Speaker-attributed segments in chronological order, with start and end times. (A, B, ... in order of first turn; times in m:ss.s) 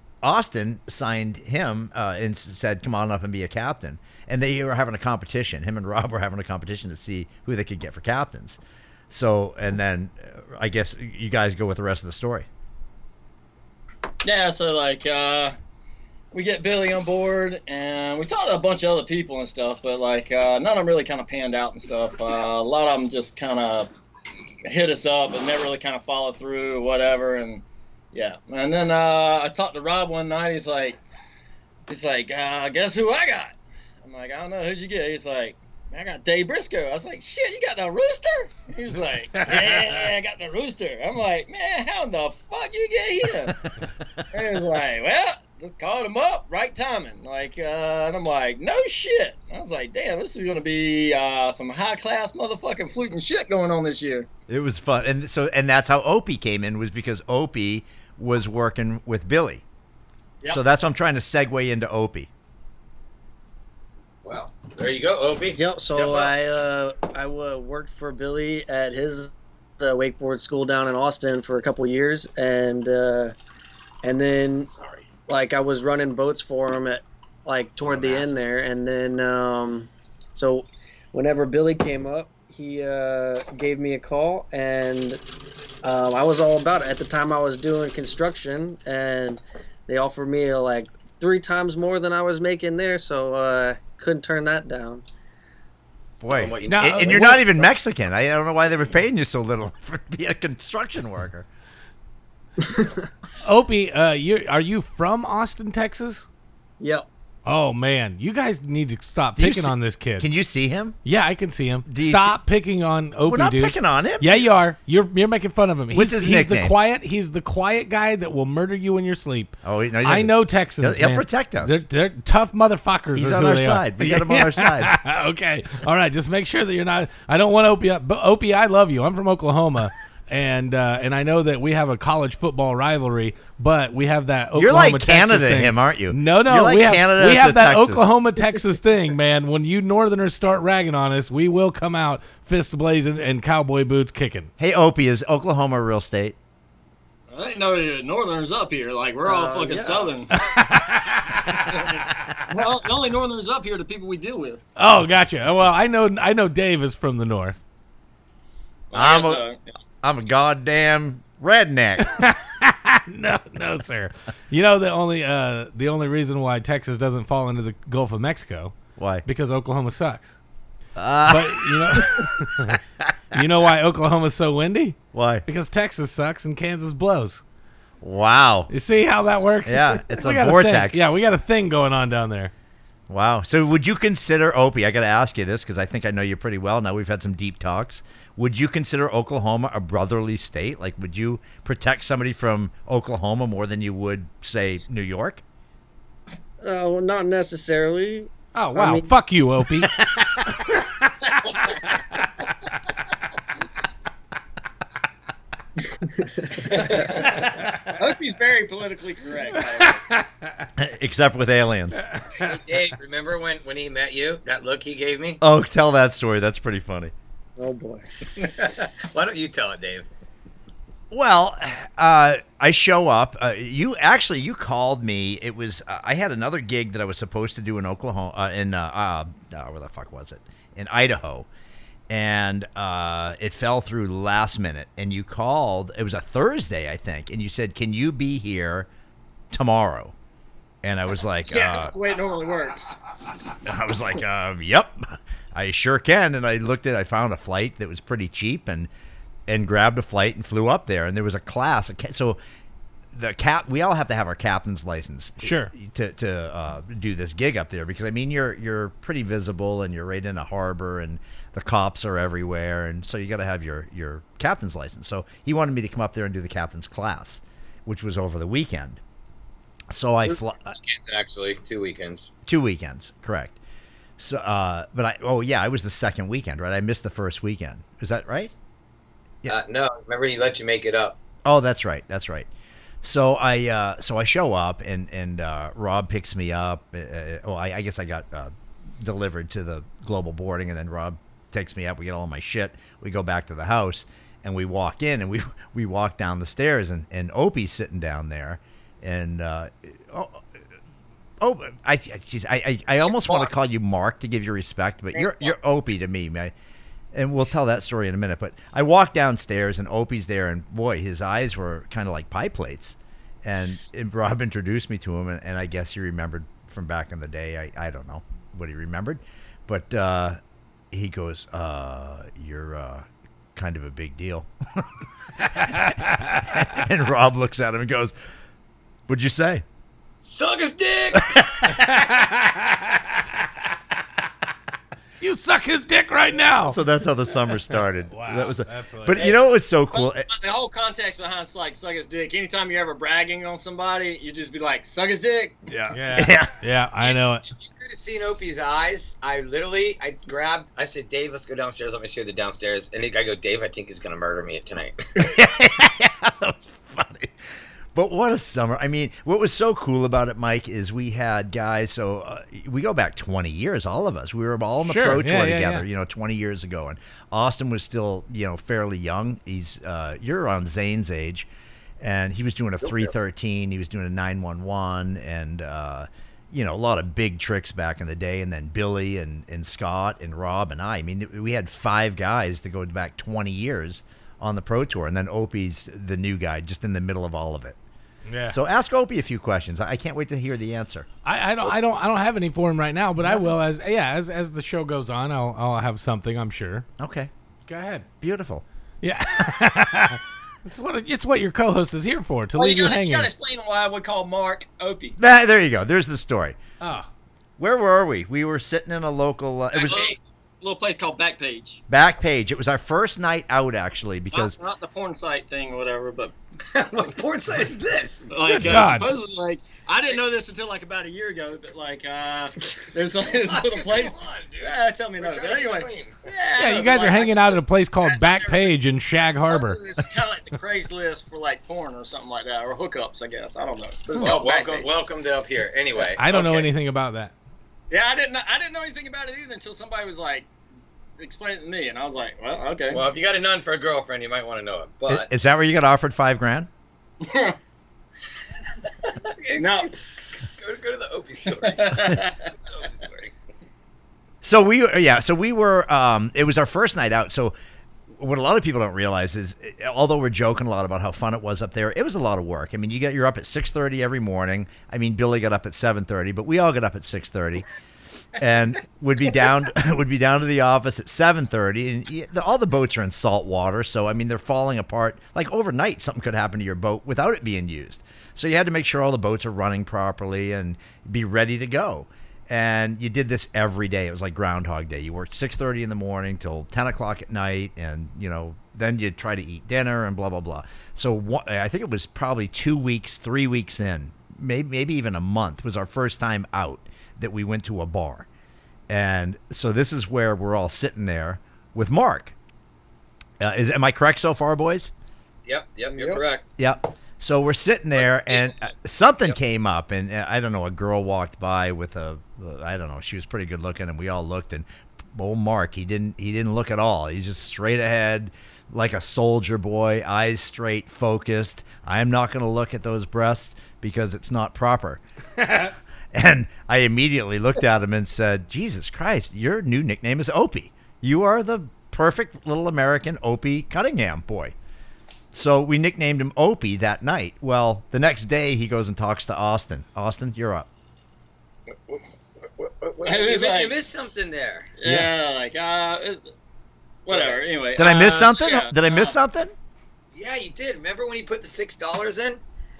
0:00.2-0:12.5 A
0:14.2-0:15.5 B
0:16.3-0:23.9 B
0:24.6-0:31.0 B
0:31.9-0:43.6 B
0:39.4-0:40.0 C
0:44.3-0:54.3 B
0:54.5-0:59.6 A
1:00.5-1:02.3 A
1:04.2-1:06.3 D
1:05.5-1:13.3 E
1:14.0-1:14.7 E
1:15.3-1:25.2 E
1:17.9-1:18.3 D
1:25.8-1:35.0 E
1:36.2-1:41.5 A
1:36.3-1:37.6 D
1:36.7-1:37.4 C
1:43.4-1:46.2 C
1:46.8-1:47.1 E
1:47.4-1:50.3 C
1:49.4-1:51.0 A
1:51.0-2:24.5 C
1:51.8-1:52.4 A
1:53.2-1:54.5 A
1:55.9-1:56.7 A
1:59.6-2:01.8 A
2:03.1-2:04.9 A
2:14.5-2:18.1 A
2:24.6-2:26.4 A
2:27.3-2:30.4 B
2:29.2-2:30.1 E
2:30.3-2:31.9 C
2:31.6-2:34.6 B
2:34.8-2:37.6 C
2:38.9-2:39.6 B
2:38.9-2:39.4 A
2:40.0-2:42.2 A
2:42.0-2:50.3 C
2:49.0-2:49.2 A
2:51.0-2:52.3 A
2:51.3-2:52.8 C
2:53.3-2:57.4 C
2:55.1-2:55.4 A
2:58.0-2:58.7 A
2:58.7-3:02.5 C
2:59.6-3:01.1 A
3:03.1-3:15.4 A
3:16.6-3:19.1 E
3:18.5-3:21.8 C
3:26.2-3:26.8 E
3:26.7-3:30.0 B
3:27.1-3:27.9 C
3:29.5-3:30.7 C
3:30.8-3:32.0 A
3:32.1-3:32.5 C
3:32.4-3:35.4 D
3:35.4-3:37.1 A
3:37.6-3:38.0 E
3:38.3-3:40.1 D
3:41.1-3:51.5 A
3:52.1-3:58.9 A
3:59.5-4:00.1 A
4:00.8-4:01.9 A
4:01.5-4:03.0 B
4:03.6-4:08.9 A
4:09.5-4:12.4 A
4:13.1-4:29.0 A
4:15.4-4:15.7 C
4:29.9-4:30.7 A
4:30.2-4:32.3 D
4:32.4-4:33.6 A
4:34.2-4:38.5 A
4:39.5-4:41.2 D
4:41.4-4:42.5 A
4:43.0-5:00.4 A
5:01.4-5:06.5 A
5:03.1-5:03.5 D
5:05.2-5:05.5 D
5:07.1-5:20.4 A
5:20.9-5:28.1 A
5:25.8-5:26.2 C
5:29.1-5:29.6 A
5:30.2-5:31.4 D
5:31.1-5:31.7 A
5:31.7-5:33.2 C
5:35.2-5:36.8 C
5:36.6-5:40.3 A
5:38.1-5:39.3 C
5:39.9-5:45.6 B
5:45.7-5:47.4 C
5:45.9-5:46.6 A
5:47.0-5:55.0 D
5:55.2-5:57.3 A
5:57.9-6:11.5 A
6:04.8-6:05.8 C
6:12.0-6:27.8 A
6:12.8-6:13.1 D
6:28.2-6:28.6 C
6:28.4-6:31.1 A
6:31.2-6:36.9 C
6:33.2-6:33.5 A
6:37.0-6:37.3 A
6:37.7-6:38.1 C
6:38.2-6:38.6 A
6:39.0-6:43.3 C
6:42.5-6:45.2 B
6:45.2-6:46.6 A
6:46.8-6:47.1 C
6:47.6-6:50.1 A
6:49.7-6:51.8 B
6:49.9-6:50.2 D
6:51.9-6:54.6 A
6:54.3-6:56.3 B
6:56.7-6:58.7 D
6:58.3-7:14.9 B
6:58.4-6:59.1 C
7:00.1-7:00.5 D
7:02.8-7:06.2 D
7:06.5-7:09.8 C
7:14.1-7:16.7 D
7:16.2-7:17.3 C
7:17.9-7:20.5 B
7:21.2-7:23.0 B
7:22.9-7:25.4 D
7:25.1-7:26.7 A
7:27.2-7:27.6 B
7:29.0-7:33.3 D
7:29.6-7:29.9 B
7:31.6-7:32.5 B
7:34.4-7:37.5 A
7:38.1-7:47.6 A
7:48.4-8:18.3 A
8:18.9-8:22.3 A
8:23.4-8:24.9 A
8:25.4-8:26.4 D
8:25.9-8:26.2 E
8:26.6-8:45.0 A
8:28.3-8:28.5 D
8:46.1-8:54.5 A
8:55.3-9:00.7 A
9:02.6-9:04.7 D
9:03.0-9:03.8 B
9:04.8-9:06.3 B
9:07.0-9:09.2 B
9:07.1-9:07.4 D
9:07.8-9:09.5 A
9:10.1-9:12.4 D